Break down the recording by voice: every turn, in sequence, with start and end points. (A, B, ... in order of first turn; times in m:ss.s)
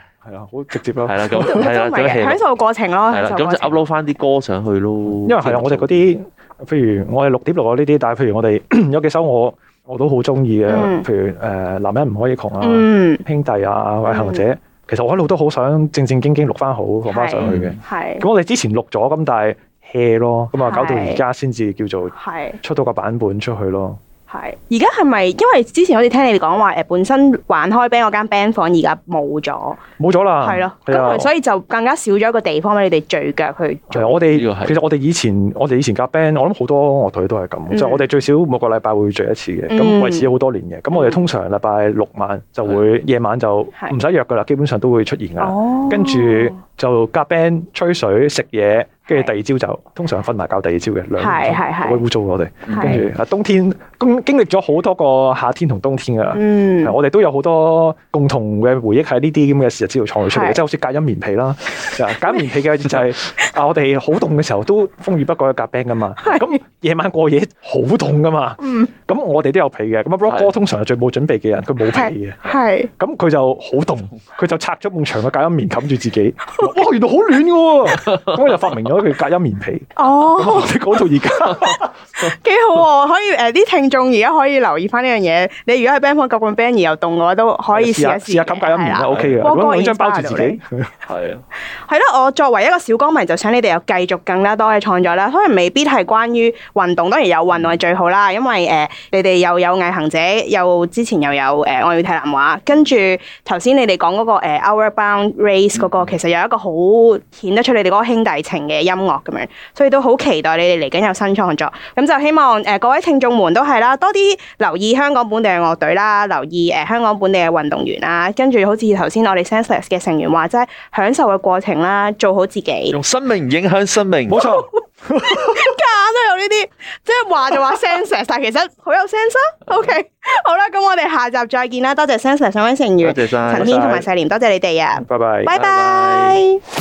0:00.2-0:01.7 A
0:01.0-0:02.4 B
0:01.4-0:03.9 C
0:03.1-0:06.1 B
0:05.2-0:24.0 A
0:10.7-0:11.0 C
0:12.6-0:13.2 C
0:14.1-0:14.4 C
0:17.1-0:18.2 C
0:17.4-0:17.8 B
0:20.6-0:21.2 C
0:22.1-0:22.6 C
0:24.3-0:29.8 C
0:30.0-0:31.3 A
0:30.4-0:34.2 C
0:33.9-1:21.9 A
0:34.3-0:34.8 B
0:37.7-0:38.0 C
0:39.7-0:40.3 C
0:40.9-0:41.2 C
0:45.4-0:46.6 C
0:49.1-0:49.3 C
0:51.2-0:52.0 C
0:52.7-0:53.1 B
0:52.7-0:53.1 C
0:56.3-0:57.0 C
1:00.3-1:00.6 C
1:08.6-1:08.9 C
1:11.9-1:12.9 C
1:18.1-1:18.7 B
1:20.0-1:20.8 C
1:22.2-1:30.6 C
1:27.7-1:30.9 A
1:29.1-1:29.4 B
1:31.1-1:31.4 B
1:31.7-2:03.0 C
1:45.8-1:46.2 B
2:02.9-2:04.4 B
2:04.3-2:05.7 A
2:05.3-2:16.6 C
2:13.0-2:13.9 B
2:13.5-2:14.1 A
2:15.0-2:15.5 A
2:15.5-2:16.4 B